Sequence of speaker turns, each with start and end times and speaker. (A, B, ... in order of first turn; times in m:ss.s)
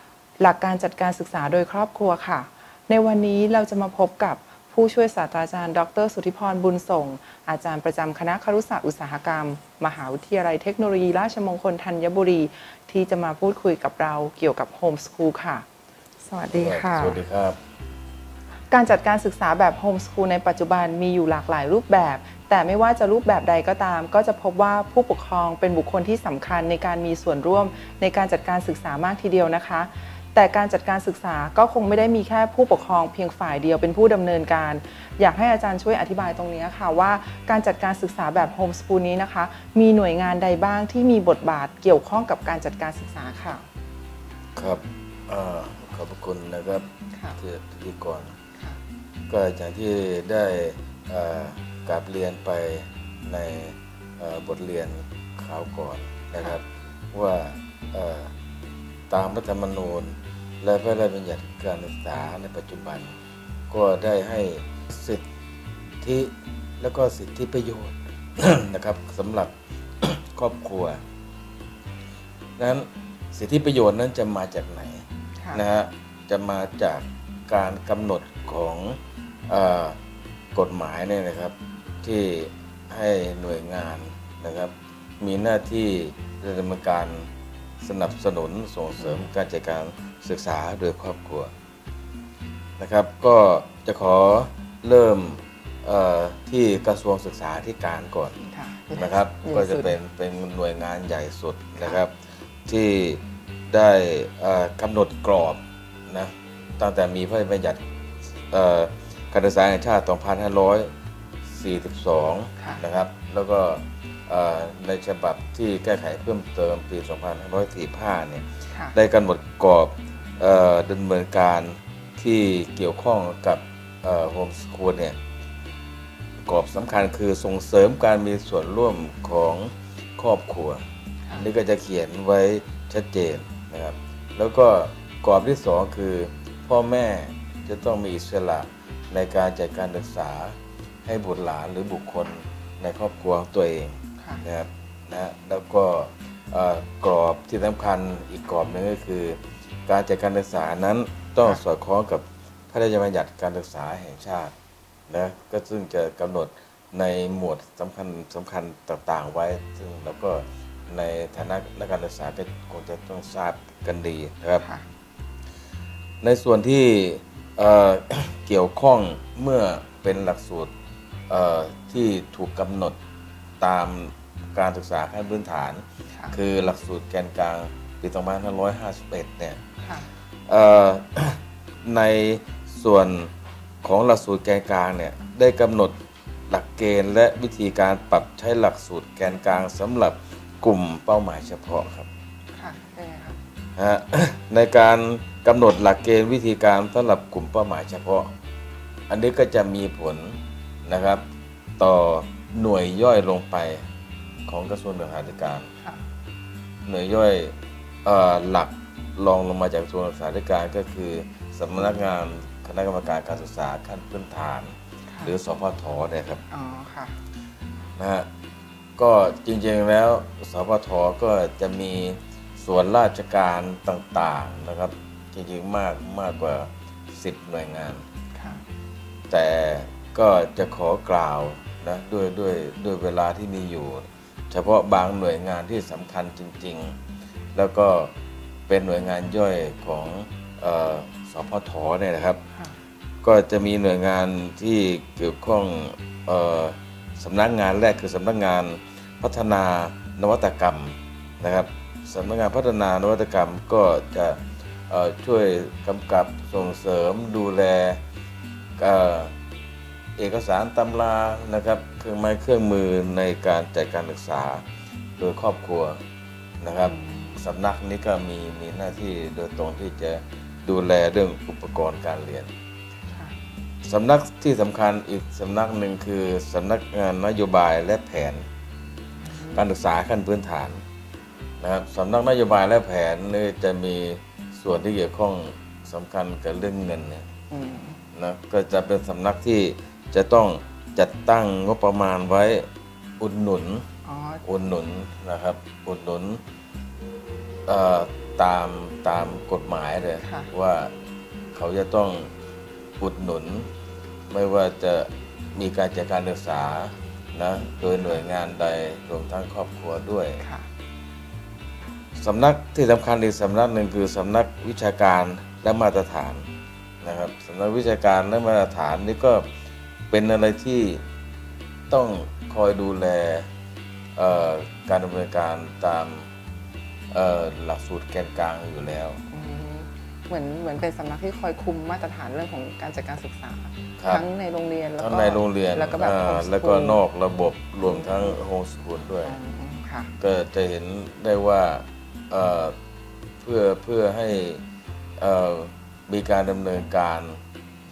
0:00.4-0:15.6 A
0:16.3-0:17.2 A
0:16.5-0:17.6 B
0:18.7-0:43.7 A
0:44.6-0:46.9 B
0:47.4-0:48.4 B
0:49.3-0:58.3 B
0:59.1-1:03.2 B
1:03.7-1:05.2 B
1:06.0-1:11.0 B
1:12.6-1:20.0 B
1:20.5-1:27.3 B
1:27.8-1:31.5 B
1:29.0-1:29.3 A
1:32.8-1:38.4 B
1:38.4-1:40.0 A
1:38.9-1:47.8 B
1:48.4-1:50.9 B
1:51.5-2:05.2 B
1:52.6-1:52.8 A
1:58.7-1:59.0 A
2:06.5-2:10.8 B
2:11.4-2:34.5 B
2:24.2-2:24.4 A
2:35.1-2:44.6 B
2:46.2-2:50.7 B
2:51.3-2:53.0 B
2:53.6-2:59.6 B
2:56.1-2:56.4 A
2:59.8-3:00.1 A
3:00.5-3:06.0 B
3:06.5-3:12.1 B
3:12.5-3:13.4 A
3:13.8-3:18.3 B
3:19.1-3:21.2 B
3:21.8-3:23.8 B
3:24.5-3:25.7 B
3:26.9-3:36.4 B
3:31.8-3:32.1 A
3:35.1-3:35.4 A
3:36.5-3:37.2 A
3:38.0-3:38.3 B
3:39.0-3:48.0 B
3:48.4-3:48.6 A
3:49.3-3:57.0 B
3:57.6-3:58.1 B
3:58.7-4:02.4 B
4:03.2-4:18.0 B
4:18.8-4:19.3 B
4:20.2-4:24.6 B
4:25.2-4:26.0 B
4:26.6-4:32.5 B
4:26.8-4:27.4 A
4:33.8-4:38.4 B
4:39.2-4:39.7 A
4:39.5-4:40.8 B
4:41.6-4:47.3 B
4:47.5-4:48.0 A
4:48.1-4:52.7 B
4:53.2-4:53.9 B
4:54.0-4:54.4 A
4:54.4-4:56.4 B
4:57.7-5:00.9 B
5:00.2-5:00.5 A
5:01.5-5:02.3 B
5:03.0-5:03.7 B
5:04.3-5:10.4 B
5:10.4-5:10.7 A
5:12.2-5:16.5 B
5:17.0-5:19.5 B
5:20.1-5:21.0 B
5:21.9-5:23.5 B
5:24.2-5:26.3 B
5:27.1-5:29.2 B
5:29.3-5:37.0 A
5:34.0-5:34.2 B
5:35.0-5:39.4 B
5:37.8-5:38.4 A
5:39.2-5:40.1 A
5:40.2-5:42.8 B
5:43.4-5:44.6 B
5:45.2-5:47.4 B